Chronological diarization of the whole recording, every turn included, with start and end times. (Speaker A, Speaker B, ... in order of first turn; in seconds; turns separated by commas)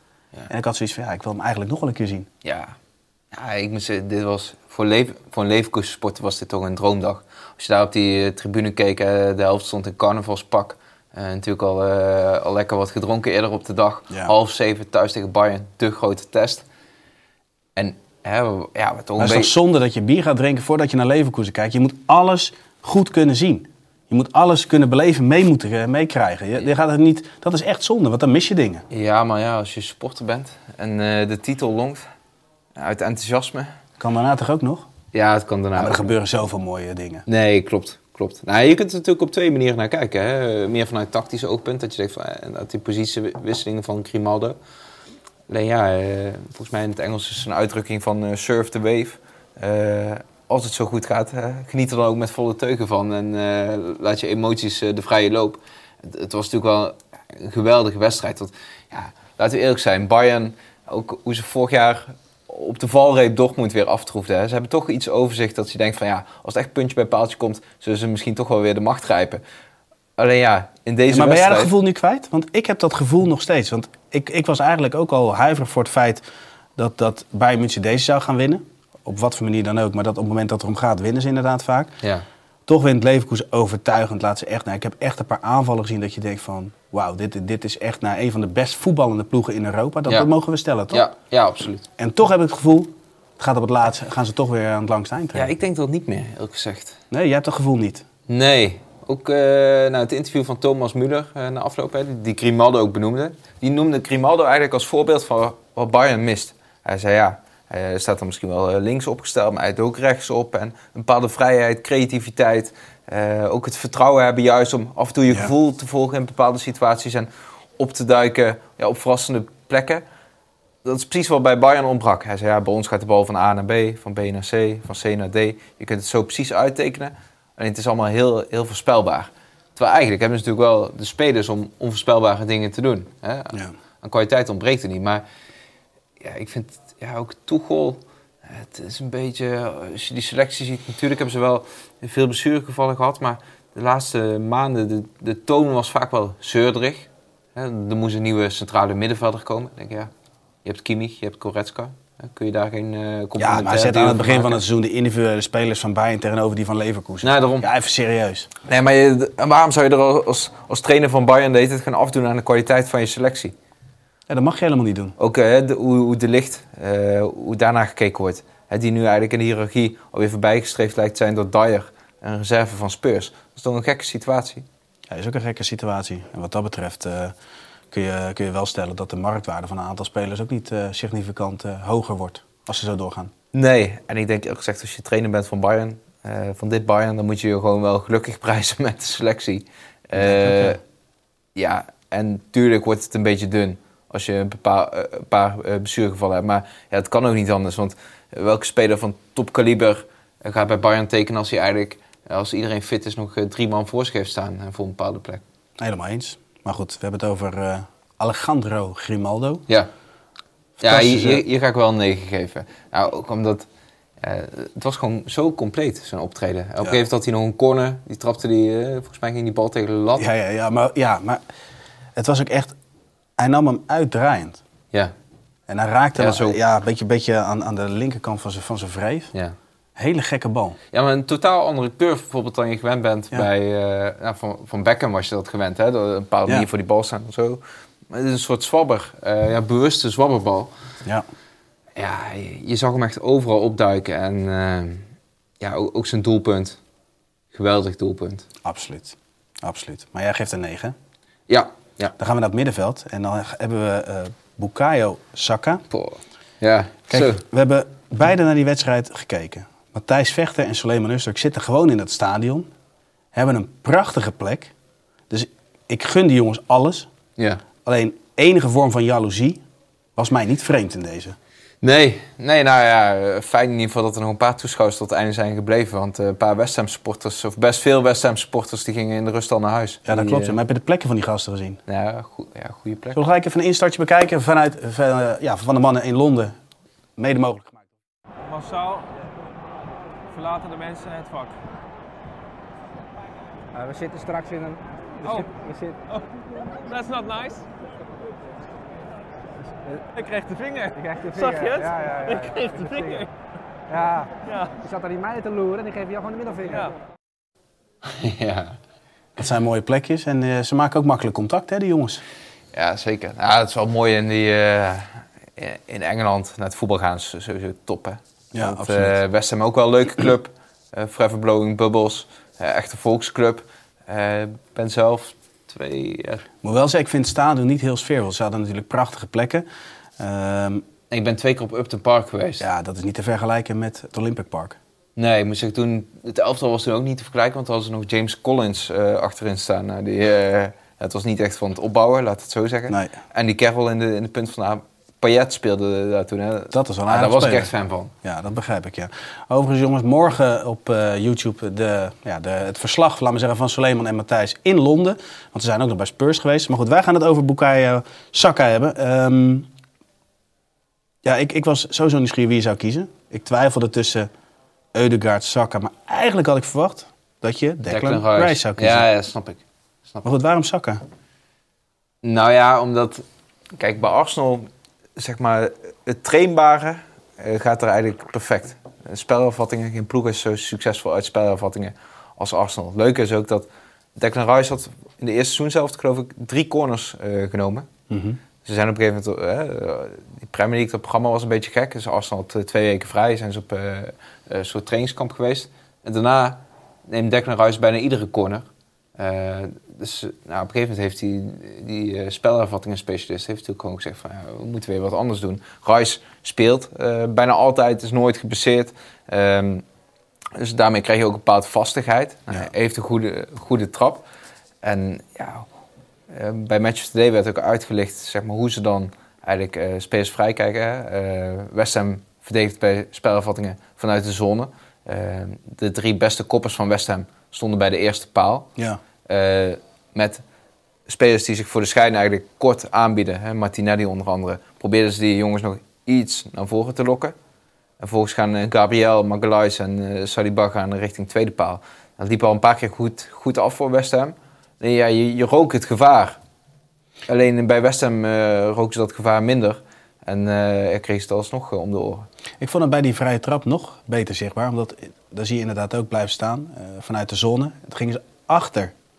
Speaker A: 0.5-2.3, Speaker B: 2.4-2.8, Speaker B: 3.3-16.6, Speaker B: 17.8-19.5, Speaker A: 19.2-28.9, Speaker B: 28.9-32.0, Speaker B: 32.8-33.7, Speaker A: 34.0-34.9, Speaker B: 35.1-36.1, Speaker A: 35.8-37.2, Speaker B: 37.3-44.6, Speaker B: 45.5-69.4, Speaker B: 70.2-71.7, Speaker A: 71.1-76.2, Speaker A: 76.8-82.0, Speaker A: 82.7-91.1, Speaker B: 90.9-91.9, Speaker A: 92.0-95.5, Speaker B: 95.3-97.0, Speaker A: 97.1-98.1, Speaker B: 98.3-120.0, Speaker B: 120.8-135.2, Speaker B: 136.2-150.1, Speaker B: 150.6-154.6, Speaker A: 153.4-158.5, Speaker B: 157.2-157.7, Speaker B: 158.7-163.5, Speaker A: 164.3-165.2, Speaker B: 165.2-174.7, Speaker A: 175.1-177.3, Speaker A: 177.9-183.3, Speaker B: 183.5-190.8, Speaker A: 190.2-190.8, Speaker B: 191.6-205.4, Speaker A: 205.8-209.7, Speaker A: 210.8-211.4, Speaker B: 210.8-213.7, Speaker B: 214.2-220.3, Speaker A: 220.2-221.4, Speaker A: 222.2-222.8, Speaker A: 223.4-224.6, Speaker A: 225.7-229.3, Speaker B: 226.2-226.6, Speaker A: 230.0-230.8, Speaker B: 230.9-240.7, Speaker B: 242.0-245.1, Speaker B: 245.6-246.8, Speaker B: 247.5-248.5, Speaker A: 248.6-250.9, Speaker B: 251.5-252.1, Speaker A: 252.2-255.8, Speaker B: 255.9-257.4, Speaker A: 257.1-262.7, Speaker A: 263.3-264.7, Speaker A: 265.3-267.1, Speaker A: 267.8-269.6, Speaker A: 270.2-271.4, Speaker B: 271.8-280.6, Speaker A: 280.0-281.8, Speaker B: 281.9-283.2, Speaker A: 283.1-286.6, Speaker A: 287.2-287.9, Speaker C: 288.5-289.1, Speaker C: 290.3-291.5, Speaker D: 293.7-296.0, Speaker C: 296.8-297.7, Speaker C: 300.1-303.3, Speaker D: 300.9-303.3, Speaker D: 303.9-306.9, Speaker C: 304.5-304.7, Speaker B: 308.0-308.8, Speaker A: 309.4-312.2, Speaker B: 312.7-326.5, Speaker A: 318.5-319.2, Speaker A: 326.6-329.7, Speaker A: 330.2-330.9, Speaker B: 331.1-332.6, Speaker A: 332.6-334.8, Speaker B: 335.2-348.1, Speaker A: 342.9-343.2, Speaker A: 346.7-347.7, Speaker A: 348.2-359.7, Speaker A: 361.2-364.3, Speaker A: 364.9-369.1, Speaker B: 367.9-370.2, Speaker A: 370.2-371.0, Speaker B: 372.2-387.9, Speaker A: 388.1-388.4, Speaker B: 388.6-409.8, Speaker B: 410.6-414.2, Speaker B: 414.8-415.7, Speaker B: 416.3-428.7, Speaker B: 429.2-430.4, Speaker B: 431.1-437.4, Speaker B: 438.0-446.4, Speaker B: 447.3-452.3, Speaker A: 452.6-458.9